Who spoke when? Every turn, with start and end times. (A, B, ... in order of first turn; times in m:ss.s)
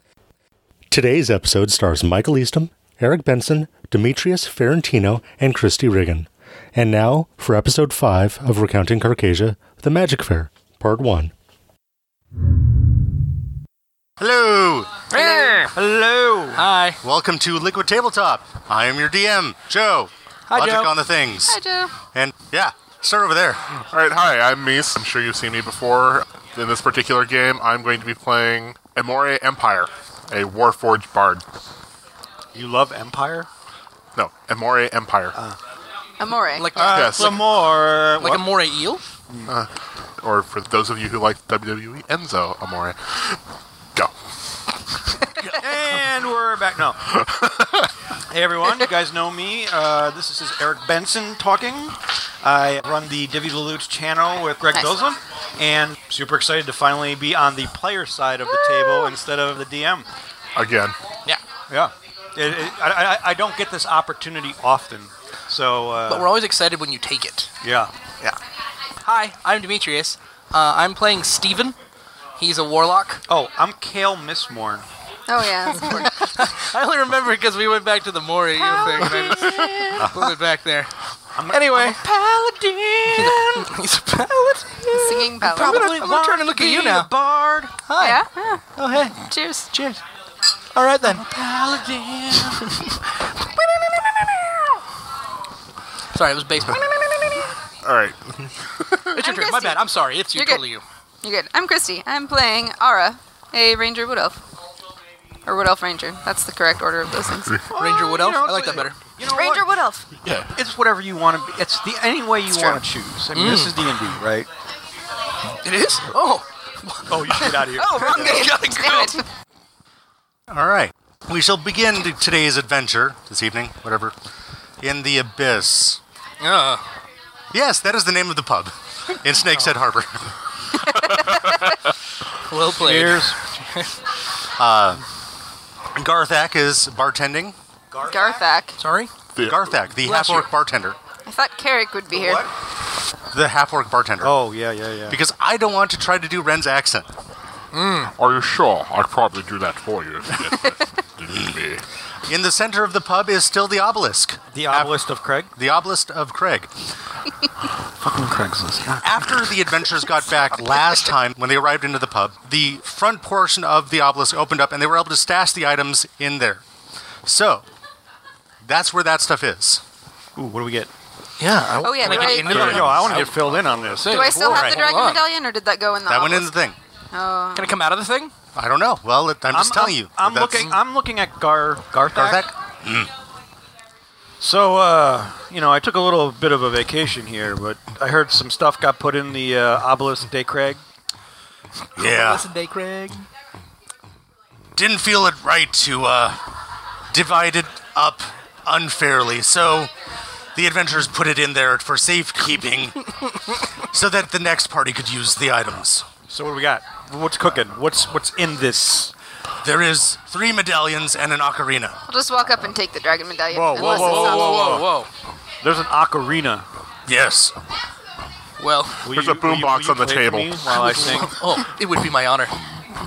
0:00.9-0:11.3 A
0:14.2-0:15.0 A
0:15.1-0:15.7 B
0:15.1-0:16.6 C
0:16.6-0:17.0 B
0:17.0-0:21.6 A
0:20.5-0:21.0 B
0:21.4-0:21.9 D
0:22.1-0:23.6 A
0:23.7-0:31.4 E
0:32.6-0:33.5 C
0:34.2-0:35.4 E
0:36.2-0:36.9 D
0:36.5-0:37.6 B
0:36.8-0:38.5 C
0:36.9-0:37.4 E
0:38.2-0:39.0 B
0:39.4-0:43.4 E
0:45.5-0:47.2 C
0:47.1-0:47.9 E
0:48.3-1:00.1 C
0:54.7-0:55.0 D
1:00.6-1:01.0 E
1:01.7-1:06.3 C
1:06.1-1:07.5 B
1:07.6-1:07.9 C
1:09.0-1:11.8 B
1:12.4-1:13.2 B
1:13.3-1:14.8 C
1:15.3-1:16.2 D
1:15.8-1:20.9 B
1:18.7-1:19.7 C
1:21.4-1:23.7 C
1:21.5-1:22.0 B
1:23.1-1:27.1 B
1:24.9-1:25.9 D
1:25.4-1:27.7 C
1:27.9-1:28.2 B
1:28.0-1:28.6 D
1:28.8-1:30.0 B
1:29.2-1:29.7 D
1:30.7-1:31.2 B
1:31.0-1:33.0 C
1:33.6-1:34.6 C
1:36.1-1:36.9 B
1:37.8-1:39.2 E
1:39.1-1:40.8 B
1:39.2-1:40.6 D
1:41.2-1:44.4 D
1:45.4-1:47.6 D
1:47.7-1:49.7 C
1:47.7-1:49.0 B
1:49.3-1:50.1 D
1:50.2-1:50.6 E
1:50.6-1:54.5 C
1:52.5-1:52.8 D
1:53.3-1:53.8 B
1:55.6-1:59.2 B
1:57.1-1:58.5 C
1:57.8-1:59.2 D
2:00.5-2:04.2 A
2:04.8-2:06.0 A
2:06.4-2:06.9 B
2:07.5-2:10.3 A
2:12.4-2:14.0 B
2:12.8-2:13.4 C
2:14.6-2:15.0 A
2:15.9-2:17.6 A
2:17.9-2:18.5 C
2:18.1-2:18.8 D
2:18.8-2:19.1 B
2:19.4-2:19.8 E
2:19.4-2:21.0 A
2:20.0-2:20.5 B
2:21.3-2:22.5 D
2:22.1-2:22.5 C
2:23.3-2:24.4 A
2:24.2-2:25.2 C
2:25.1-2:27.1 A
2:27.7-2:28.1 B
2:28.1-2:31.8 E
2:32.3-2:35.0 A
2:34.5-2:35.5 C
2:35.6-2:36.7 A
2:38.0-2:39.4 C
2:39.0-2:46.6 A
2:47.2-2:47.6 A
2:48.6-2:49.8 A
2:50.4-2:50.9 C
2:51.4-2:55.2 B
2:51.8-2:53.0 D
2:52.0-2:54.5 C
2:52.2-2:53.0 A
2:52.7-2:53.1 E
2:54.0-2:56.5 D
2:54.5-2:54.8 A
2:56.1-2:56.8 A
2:57.1-2:57.8 D
2:57.5-2:58.3 B
2:58.6-3:00.7 A
2:59.5-3:02.5 C
3:02.1-3:03.1 A
3:04.4-3:10.8 C
3:12.0-3:13.3 B
3:12.0-3:12.4 A
3:14.8-3:16.4 A
3:17.1-3:19.9 A
3:20.6-3:23.2 A
3:23.8-3:26.1 A
3:26.3-3:29.1 C
3:29.6-3:32.0 A
3:32.1-3:34.8 D
3:33.5-3:34.9 C
3:33.7-3:35.1 B
3:35.6-3:36.7 C
3:37.1-3:37.6 A
3:38.6-3:39.1 B
3:39.0-3:40.9 E
3:39.0-3:41.4 C
3:40.7-3:42.6 B